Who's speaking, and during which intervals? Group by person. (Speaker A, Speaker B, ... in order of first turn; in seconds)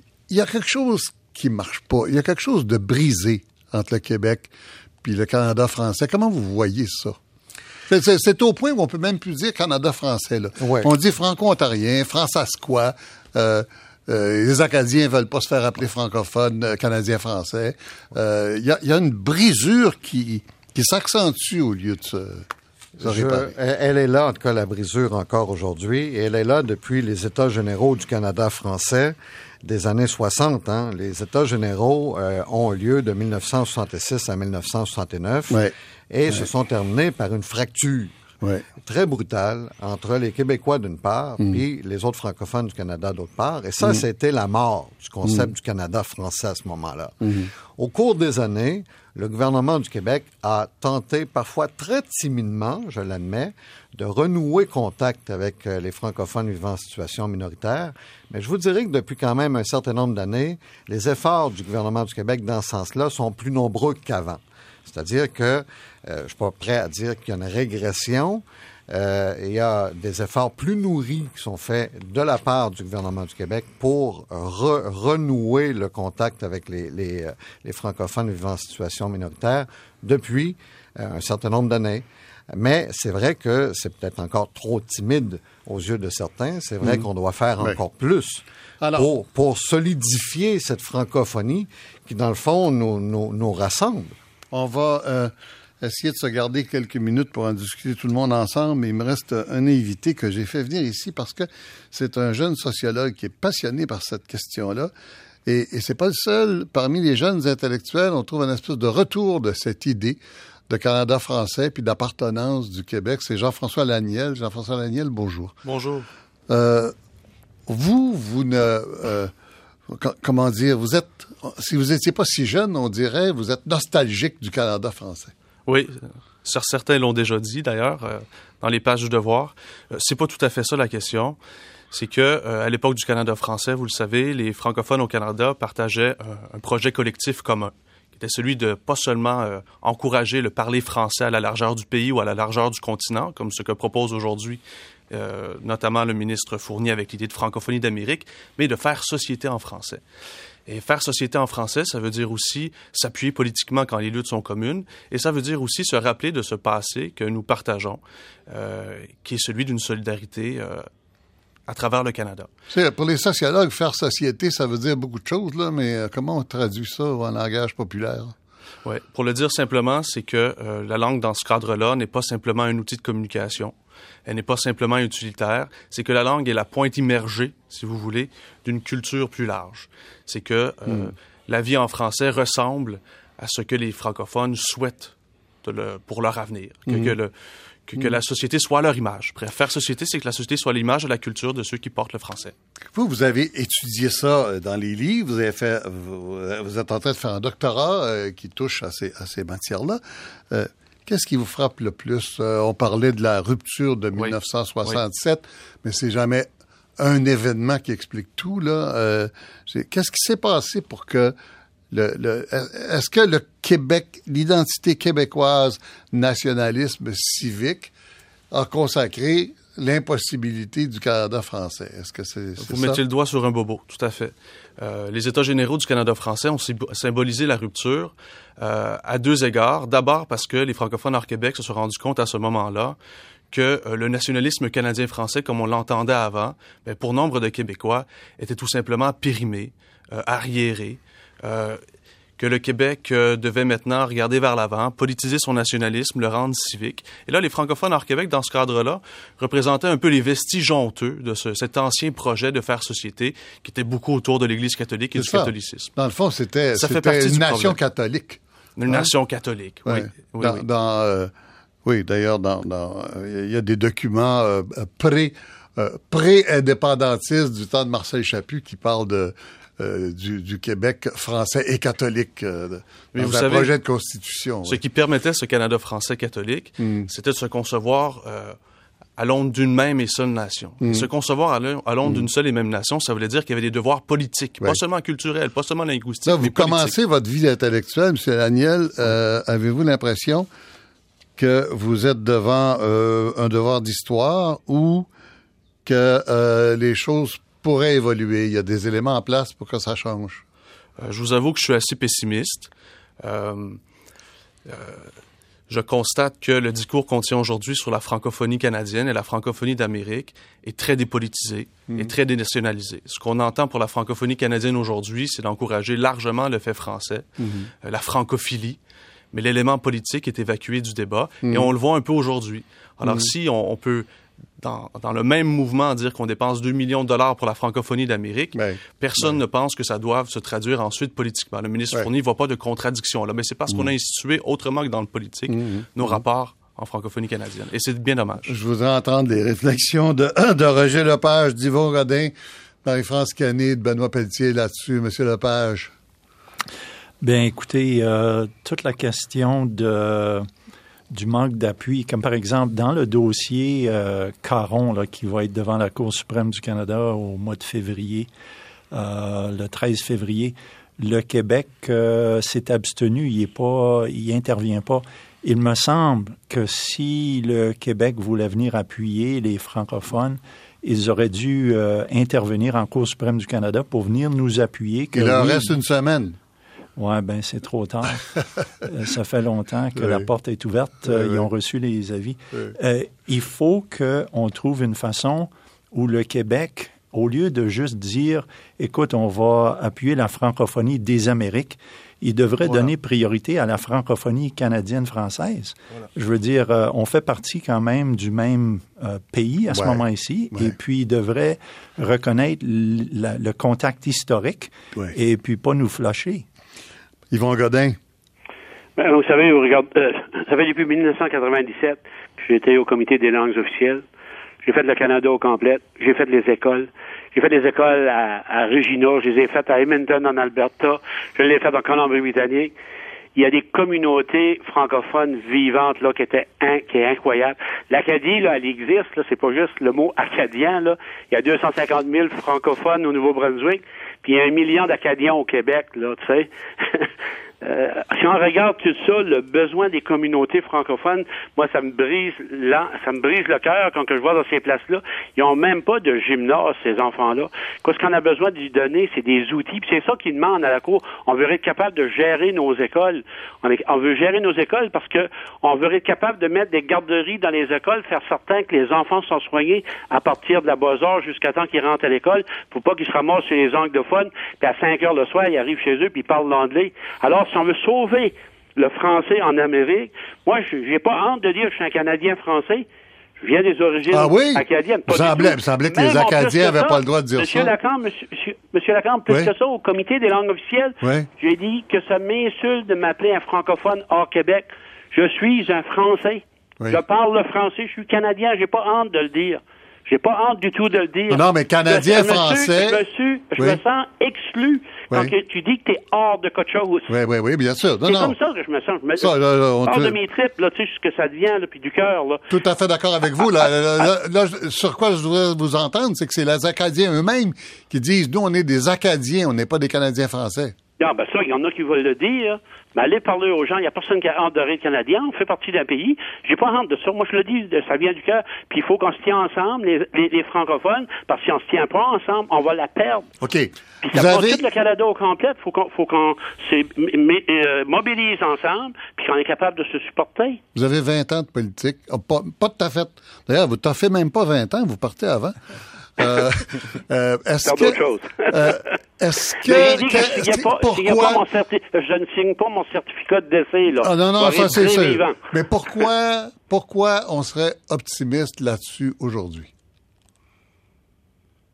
Speaker A: 0.3-4.5, 5.0-7.2, 7.9-22.5, 23.0-23.6, 43.8-44.1, 45.2-45.5, 47.2-47.5, 88.8-89.1, 94.5-104.9, 105.5-115.6, 116.5-116.9, 117.7-119.3, 119.9-125.3, 162.7-168.3, 186.9-187.1, 192.9-211.3, 211.9-217.9, 218.5-223.0, 255.2-259.1, 259.9-261.3, 261.8-274.8, 276.8-277.1, 280.8-281.1, 286.2-290.5, 291.4-295.1, 295.9-300.4, 317.4-317.7, 321.4-321.7, 323.0-323.3, 328.5-329.4, 335.5-336.2, 338.5-342.3, 342.8-345.9, 375.1-376.4, 380.0-380.3, 381.0-381.5, 399.7-400.7, 407.3-408.0, 474.1-477.8, 481.0-481.3, 491.3-493.0, 497.1-498.4, 499.2-500.2, 502.5-510.8, 523.4-524.6, 530.8-535.6, 536.2-541.4, 544.0-549.7
Speaker B: 10.6-10.9, 23.0-38.1, 38.8-94.1
Speaker C: 115.6-116.1, 125.7-131.4, 131.9-150.0, 150.7-160.9, 161.7-162.5, 168.8-173.8, 174.2-187.3, 187.9-192.5, 204.2-205.0, 222.6-233.0, 233.5-241.8, 242.4-255.9, 256.7-257.8, 258.8-260.6, 273.1-273.7, 274.6-278.6, 279.2-287.0, 301.0-302.7, 303.2-303.8, 304.6-305.1, 305.7-317.3, 317.8-318.8, 319.3-324.1, 324.6-338.5
Speaker D: 347.2-350.5, 351.1-358.3, 358.9-375.8, 377.0-378.3, 378.8-406.4
Speaker E: 409.0-414.0, 414.6-422.7, 423.4-437.1, 437.6-472.9, 473.4-497.1, 498.0-502.5, 511.0-523.3, 524.0-530.6, 537.6-538.9, 539.6-545.4